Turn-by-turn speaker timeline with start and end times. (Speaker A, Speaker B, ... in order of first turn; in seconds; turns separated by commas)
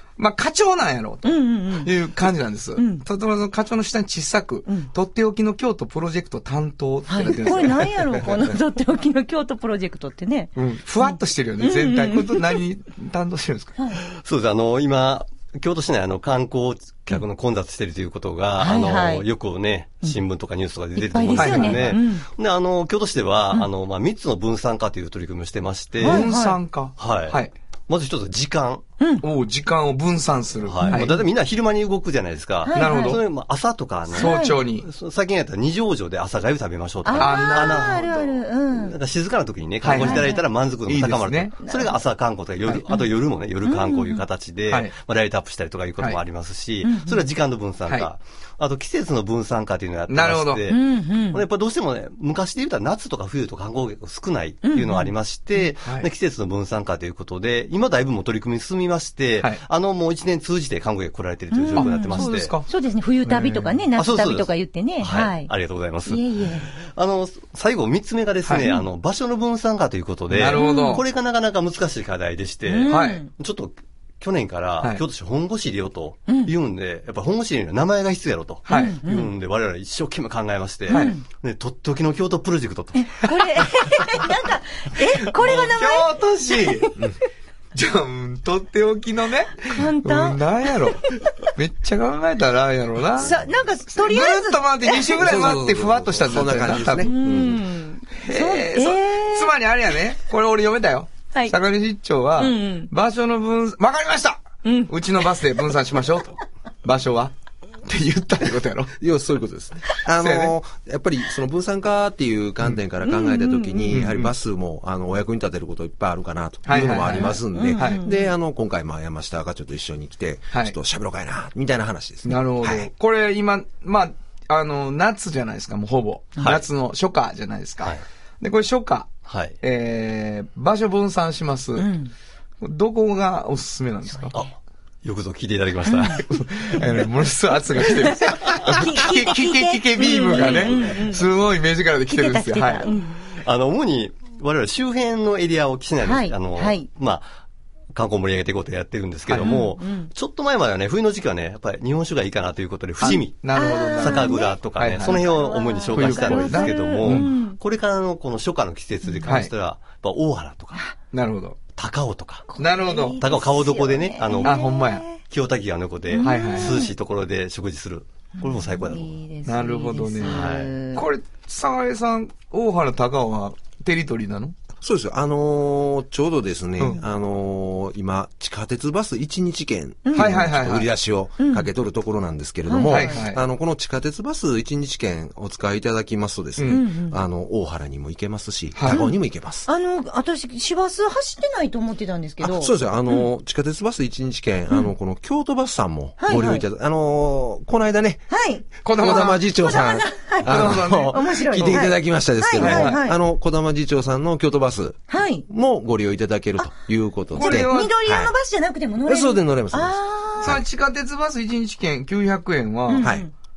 Speaker A: 0.2-8.6, Speaker B: 1.2-1.9, Speaker B: 2.8-3.0, Speaker B: 7.1-12.6, Speaker A: 10.6-13.7, Speaker C: 14.0-26.3, Speaker B: 18.6-19.2, Speaker B: 21.0-22.3, Speaker A: 21.4-22.0, Speaker A: 26.0-27.5, Speaker B: 26.0-26.6, Speaker C: 27.0-28.9, Speaker B: 29.0-29.2, Speaker A: 29.2-31.2, Speaker C: 30.6-62.5, Speaker B: 30.8-31.2, Speaker B: 32.6-33.2, Speaker A: 32.7-33.2, Speaker A: 34.1-34.9, Speaker B: 34.1-34.6, Speaker B: 37.0-39.0, Speaker A: 37.2-37.9, Speaker A: 39.8-41.5, Speaker B: 40.0-40.4, Speaker B: 41.6-41.9, Speaker B: 43.6-44.2, Speaker A: 44.7-44.9, Speaker B: 46.8-47.2, Speaker A: 50.1-50.6, Speaker B: 50.7-51.4, Speaker B: 54.6-55.1, Speaker A: 55.8-56.1, Speaker B: 61.5-65.5, Speaker A: 61.8-62.7, Speaker A: 63.2-63.8, Speaker C: 64.0-83.7, Speaker B: 66.1-66.7, Speaker A: 70.3-71.0, Speaker B: 70.5-71.0, Speaker B: 72.7-73.3, Speaker A: 72.9-73.2, Speaker B: 76.3-76.5, Speaker A: 78.7-79.0, Speaker B: 78.7-79.3, Speaker B: 80.9-81.2, Speaker B: 82.9-87.1, Speaker A: 85.2-87.0, Speaker A: 87.7-93.4, Speaker B: 89.7-91.2, Speaker B: 93.2-95.2, Speaker A: 93.9-97.1, Speaker D: 95.2-97.6, Speaker B: 97.0-99.5, Speaker A: 98.2-107.3, Speaker B: 102.4-102.9, Speaker B: 104.6-104.9, Speaker A: 107.8-108.9, Speaker D: 109.0-122.9, Speaker A: 110.2-110.5, Speaker B: 113.0-114.0, Speaker A: 113.9-114.3, Speaker A: 116.7-118.0, Speaker B: 117.1-118.3, Speaker A: 122.2-131.9, Speaker C: 129.2-129.6, Speaker B: 131.8-132.1, Speaker A: 132.6-134.4, Speaker C: 135.0-136.8, Speaker B: 135.9-136.2, Speaker A: 136.2-142.9, Speaker B: 138.0-141.2, Speaker C: 140.4-140.9, Speaker B: 142.1-143.2, Speaker C: 143.3-147.3, Speaker B: 146.0-146.9, Speaker C: 147.9-160.8, Speaker A: 149.3-149.6, Speaker B: 149.4-150.1, Speaker A: 153.0-155.2, Speaker B: 153.0-157.6, Speaker A: 155.9-157.3, Speaker A: 161.1-161.6, Speaker C: 161.7-162.5, Speaker B: 162.5-165.2, Speaker A: 162.6-163.2, Speaker C: 163.2-164.6, Speaker A: 164.4-165.0, Speaker C: 165.2-169.1, Speaker B: 166.1-166.9, Speaker A: 166.2-166.8, Speaker B: 168.4-171.1, Speaker A: 169.4-174.5, Speaker C: 170.2-170.7, Speaker D: 174.8-189.7, Speaker B: 180.0-180.4, Speaker A: 180.1-180.9, Speaker B: 181.4-181.7, Speaker B: 182.7-183.2, Speaker A: 182.8-183.4, Speaker A: 186.6-186.8, Speaker B: 186.7-187.2, Speaker A: 188.8-189.0, Speaker B: 188.9-193.2, Speaker D: 192.4-198.2, Speaker B: 196.2-196.6, Speaker B: 198.3-203.2, Speaker A: 198.8-199.4, Speaker D: 198.8-208.3, Speaker A: 200.4-201.9, Speaker A: 202.6-203.0, Speaker B: 205.1-205.4, Speaker A: 207.3-207.9, Speaker B: 207.3-210.6, Speaker D: 209.1-210.6, Speaker A: 210.4-213.1, Speaker B: 212.9-213.3, Speaker D: 213.0-213.2